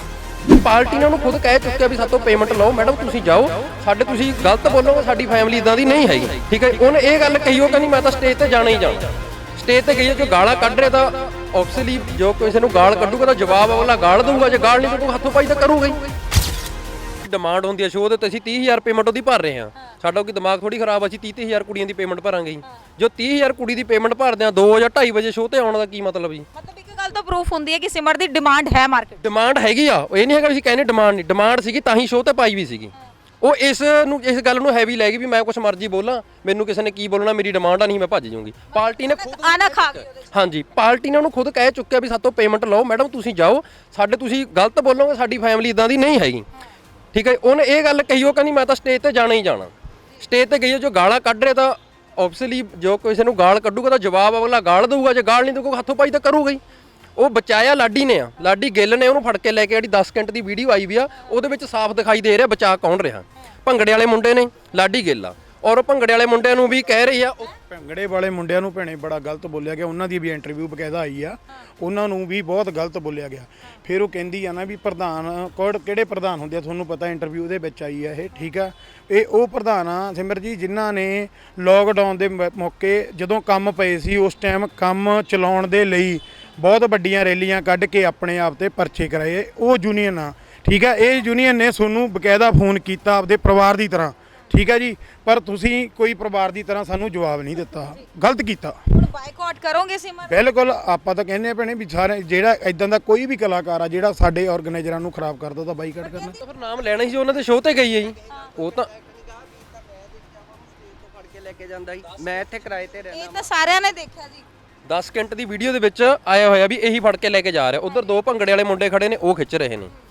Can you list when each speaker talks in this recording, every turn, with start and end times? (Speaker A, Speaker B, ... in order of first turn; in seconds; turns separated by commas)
Speaker A: 0.5-16.1, Speaker A: 17.2-26.5, Speaker B: 26.6-29.2, Speaker A: 29.2-46.5, Speaker B: 38.8-40.3, Speaker A: 47.1-56.6, Speaker A: 57.2-67.5, Speaker C: 67.7-98.8, Speaker B: 99.0-100.3, Speaker C: 100.2-106.4, Speaker A: 106.2-108.9, Speaker D: 109.0-113.5, Speaker A: 112.0-112.5, Speaker B: 113.1-114.5, Speaker A: 114.9-119.9